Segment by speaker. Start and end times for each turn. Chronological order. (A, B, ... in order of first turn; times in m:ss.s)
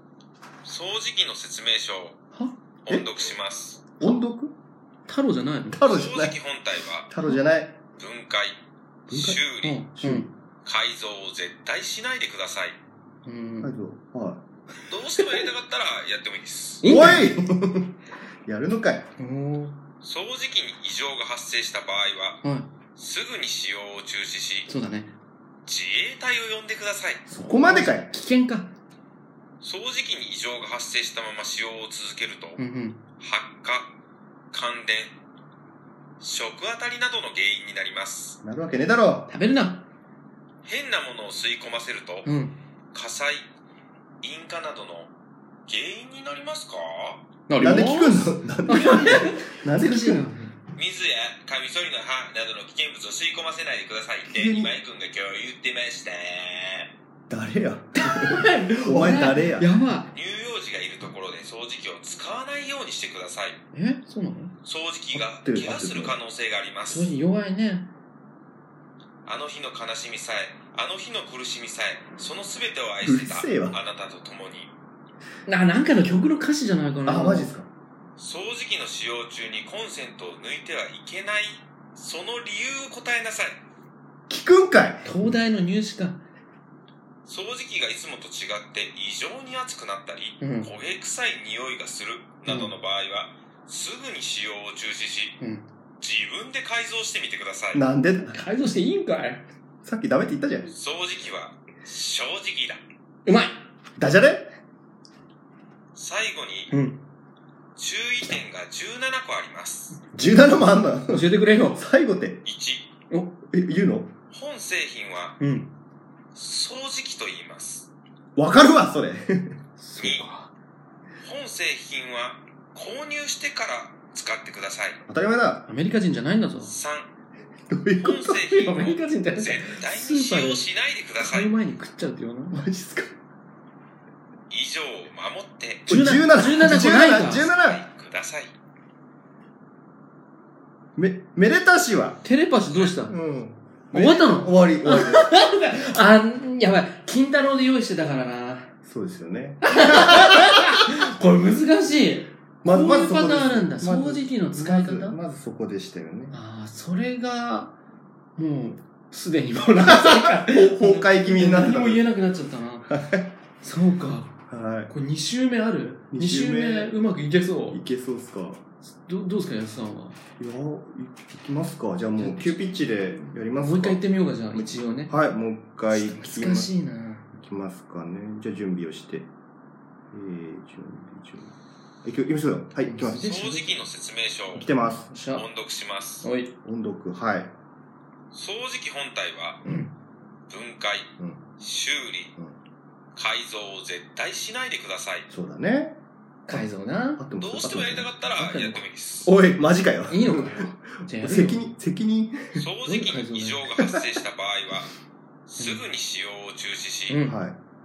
0:00.6-0:02.2 A
0:02.8-0:03.8 A
0:04.0-0:04.5 B
0:05.1-0:05.8 C
0:05.7-0:06.4 B
0:05.8-0:07.1 A
0:07.1-0:07.8 B
0:08.0-0:08.6 A
0:09.1-0:09.4 B
0:09.1-0:09.8 A
0:09.6-0:10.3 C
0:10.0-0:10.3 B
0:10.6-0:12.8 A
0:13.2-0:13.7 C
0:13.6-0:14.4 B
0:14.9-0:17.0 A
0:16.8-0:17.3 C
0:16.8-0:17.9 B
0:18.4-0:19.0 B
0:19.2-0:19.8 C
0:20.0-0:22.4 A
0:22.4-0:22.7 C
0:23.0-0:24.7 A
0:24.7-0:25.1 C
0:25.6-0:27.2 A
0:27.3-0:28.1 B
0:27.3-0:28.7 C
0:29.6-0:32.6 A
0:32.6-0:33.0 C
0:33.2-0:33.9 A
0:34.5-0:35.1 A
0:36.2-0:38.4 A
0:38.4-0:39.3 B
0:39.3-0:39.8 C
0:40.6-0:42.3 A
0:42.2-0:42.6 C
0:42.9-0:43.4 A
0:44.2-0:45.1 A
0:45.7-0:47.2 A
0:47.5-0:50.5 C
0:47.6-0:50.3 B
0:50.8-0:56.9 A
0:54.3-0:54.7 B
0:57.3-0:59.7 B
0:58.0-1:00.1 C
1:00.1-1:03.6 A
1:03.7-1:04.5 C
1:04.6-1:07.1 A
1:05.2-1:06.1 B
1:06.9-1:07.9 C
1:09.2-1:14.7 A
1:13.0-1:13.8 B
1:15.4-1:17.5 C
1:17.0-1:17.7 B
1:18.2-1:23.6 A
1:24.3-1:25.1 B
1:25.0-1:26.2 C
1:27.2-1:35.4 A
1:30.4-1:30.7 C
1:32.5-1:32.7 C
1:35.4-1:35.6 C
1:36.0-1:37.8 A
1:37.7-1:38.4 B
1:38.3-1:39.4 C
1:39.8-1:40.7 B
1:40.7-1:42.8 A
1:43.2-1:43.6 C
1:44.0-1:44.5 B
1:45.9-1:46.7 A
1:46.7-1:47.0 C
1:47.8-1:50.0 A
1:50.1-1:52.4 B
1:51.1-1:51.8 C
1:52.4-1:52.9 A
1:53.1-1:53.4 C
1:53.5-1:54.1 B
1:54.3-1:55.4 A
1:55.4-1:55.7 C
1:56.3-1:57.9 A
1:58.4-1:59.5 B
1:59.8-2:00.5 C
2:00.0-2:00.3 A
2:01.2-2:05.0 A
2:05.1-2:05.6 B
2:05.6-2:06.7 C
2:06.6-2:07.1 A
2:07.7-2:08.4 B
2:08.0-2:11.5 A
2:08.5-2:12.6 C
2:12.5-2:13.1 B
2:14.5-2:15.9 A
2:15.9-2:17.5 C
2:15.9-2:17.8 B
2:17.2-2:18.5 A
2:21.0-2:22.2 B
2:22.2-2:23.2 C
2:23.1-2:25.3 B
2:23.9-2:28.7 C
2:28.8-2:30.6 B
2:29.6-2:35.2 C
2:32.6-2:36.3 B
2:36.3-2:37.7 C
2:38.4-2:42.9 C
2:39.8-2:42.0 B
2:42.9-2:43.2 B
2:43.6-2:44.3 C
2:44.5-2:44.9 B
2:44.9-2:47.8 C
2:46.1-2:47.0 B
2:47.7-2:48.6 B
2:48.9-2:50.2 C
2:50.4-2:54.0 B
2:52.2-2:55.1 C
2:54.5-2:56.7 B
2:55.9-2:57.3 C
2:57.4-2:59.3 B
3:00.1-3:01.5 B
3:02.0-3:03.3 B
3:02.8-3:03.8 C
3:03.2-3:04.7 A
3:04.5-3:05.1 B
3:04.8-3:05.5 C
3:05.3-3:06.2 A
3:06.2-3:06.5 C
3:06.6-3:07.5 B
3:08.3-3:09.6 A
3:09.6-3:09.9 C
3:10.5-3:12.3 A
3:13.2-3:15.3 A
3:15.3-3:16.0 B
3:16.5-3:17.2 C
3:17.2-3:18.1 B
3:17.4-3:19.3 A
3:18.4-3:18.8 C
3:19.2-3:22.6 B
3:20.1-3:21.6 C
3:22.6-3:24.9 A
3:22.8-3:23.6 C
3:25.5-3:27.2 A
3:27.1-3:27.4 C
3:27.2-3:27.6 B